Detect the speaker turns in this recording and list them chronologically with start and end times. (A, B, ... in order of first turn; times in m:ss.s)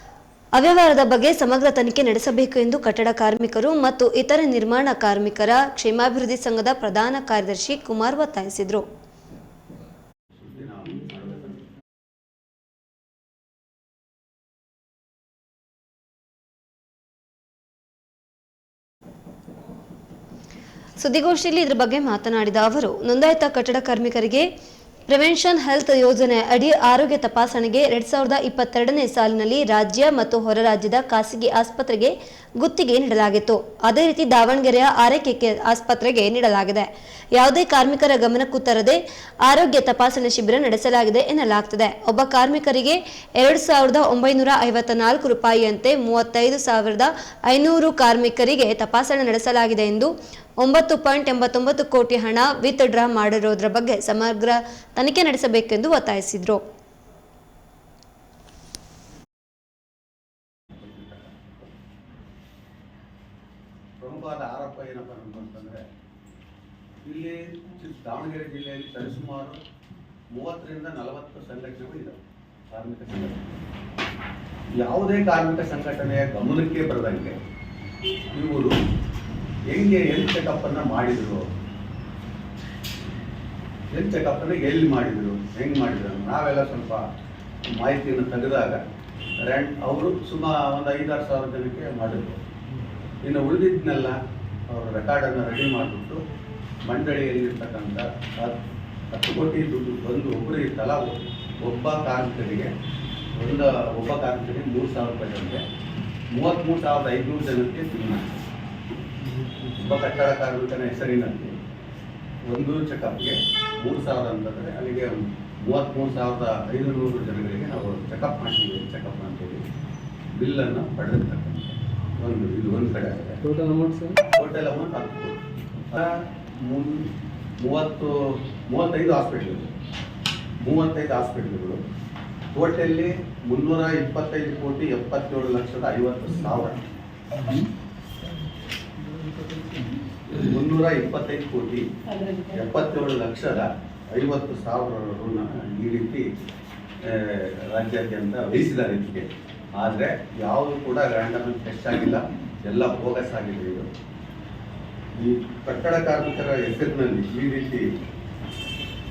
0:00.6-0:08.8 A
0:10.4-0:11.7 B
0:21.0-0:24.5 A
0:25.1-0:56.6 A
1:00.7-1:01.7 B
1:04.0-1:05.8 B
1:07.0-1:09.6 B
1:10.3-1:12.2 B
1:12.7-1:13.6 B
1:14.8-1:17.4 B
1:18.3-1:18.7 B
1:19.7-1:21.5 B
1:23.9-1:27.0 B
1:27.7-1:28.8 B
1:29.4-1:32.4 B
1:33.2-1:34.2 B
1:34.7-1:36.2 B
1:36.9-1:38.6 B
1:39.1-1:42.7 B
1:43.4-1:45.6 B
1:46.3-1:48.4 B
1:49.6-1:51.5 B
1:52.5-1:59.6 B
2:00.4-2:03.4 B
2:03.4-2:04.2 C
2:04.3-2:07.1 B
2:07.6-2:09.7 B
2:10.6-2:11.8 B
2:12.5-2:16.9 B
2:17.4-2:17.7 C
2:19.1-2:19.9 C
2:20.3-2:21.8 B
2:22.4-2:26.2 B
2:27.0-2:33.9 B
2:35.2-2:37.8 B